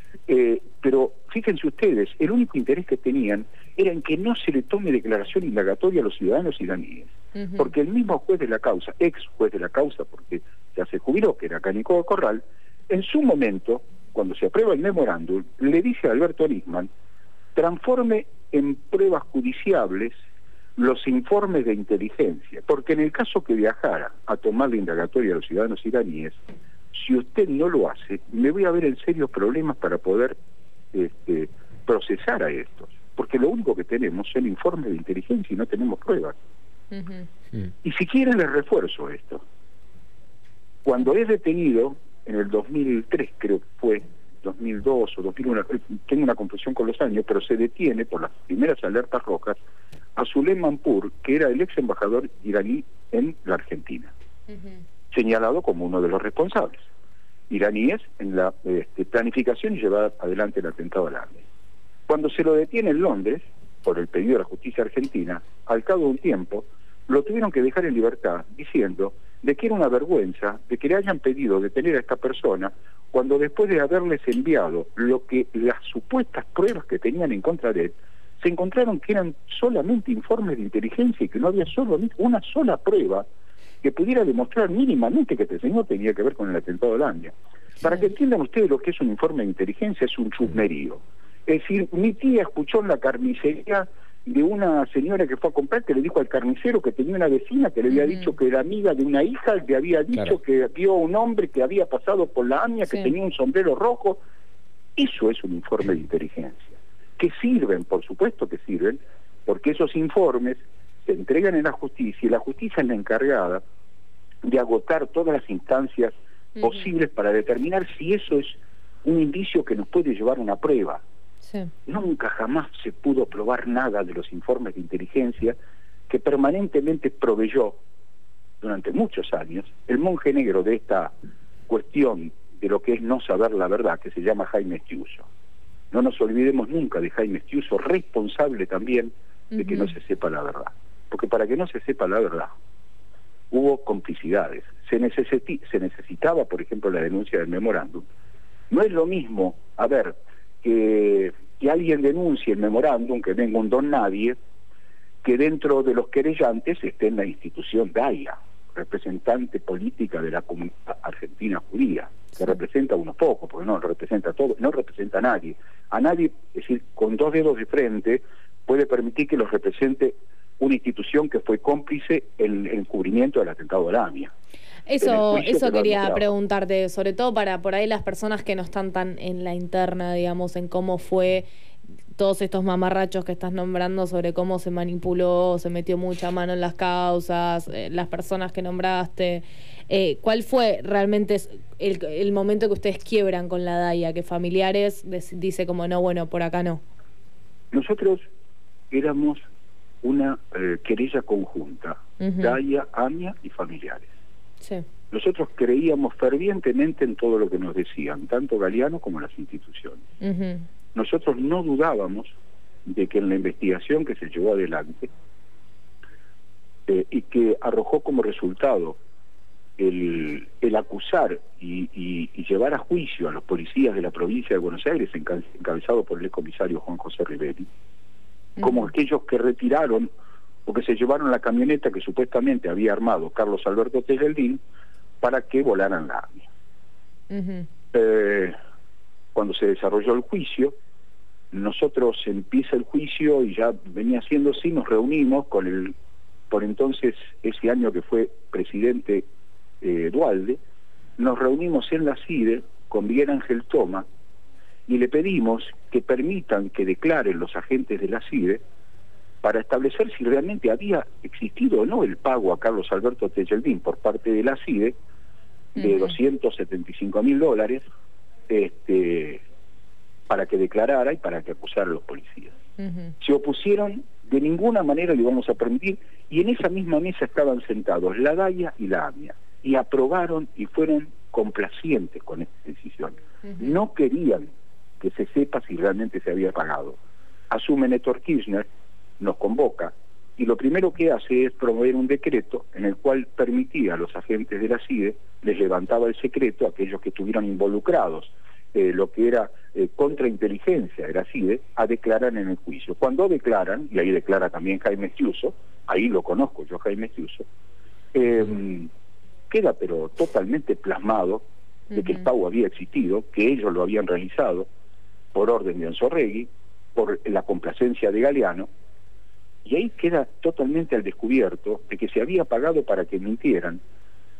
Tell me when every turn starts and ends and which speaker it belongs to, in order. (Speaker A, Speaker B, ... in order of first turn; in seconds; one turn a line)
Speaker A: 0.3-16.9
Speaker B: 7.3-7.7
Speaker A: 17.5-20.1
Speaker A: 20.8-26.4
Speaker A: 26.9-30.4
Speaker A: 30.9-36.4
Speaker B: 36.9-37.3
Speaker A: 37.8-39.4
Speaker A: 40.8-49.6
Speaker A: 50.1-54.1
Speaker B: 54.5-54.8
Speaker A: 55.1-56.9
Speaker A: 57.5-61.5
Speaker A: 62.1-83.2
Speaker A: 83.8-104.2
Speaker B: 87.8-88.1
Speaker B: 97.9-98.3
Speaker B: 102.8-103.1
Speaker A: 105.0-113.6
Speaker A: 114.4-121.0
Speaker B: 116.5-116.9
Speaker B: 121.4-121.7
Speaker A: 121.8-125.5
Speaker A: 126.1-127.8
Speaker A: 128.6-131.1
Speaker A: 131.7-135.3
Speaker A: 135.9-142.5
Speaker B: 139.5-139.9
Speaker A: 143.5-148.1
Speaker A: 148.7-154.3
Speaker A: 155.2-174.3
Speaker B: 174.9-181.5
Speaker A: 175.0-176.3
Speaker B: 182.2-196.8
Speaker A: 197.7-198.3
Speaker A: 198.9-199.4
Speaker A: 200.0-204.1
Speaker B: 202.2-202.6
Speaker A: 205.1-210.0
Speaker B: 210.2-210.6
Speaker A: 210.9-215.1
Speaker A: 216.9-219.0
Speaker A: 219.8-227.7
Speaker B: 228.6-228.9
Speaker A: 228.6-230.1
Speaker A: 230.7-234.6
Speaker A: 235.2-236.5
Speaker B: 237.3-237.7
Speaker A: 237.9-238.5
Speaker A: 239.3-240.7
Speaker A: 241.5-245.9
Speaker A: 246.5-249.3
Speaker A: 249.8-250.6
Speaker A: 251.2-254.1
Speaker A: 254.9-258.6
Speaker A: 259.4-264.9
Speaker B: 265.8-266.2
Speaker A: 265.8-267.8
Speaker A: 268.5-269.4
Speaker A: 270.3-272.5
Speaker B: 272.8-273.1
Speaker A: 273.2-287.0
Speaker B: 283.4-283.8
Speaker A: 287.5-288.6
Speaker A: 289.2-307.5
Speaker A: 308.1-308.9
Speaker A: 309.5-314.7
Speaker B: 311.9-312.2
Speaker A: 315.3-318.7
Speaker A: 319.6-323.8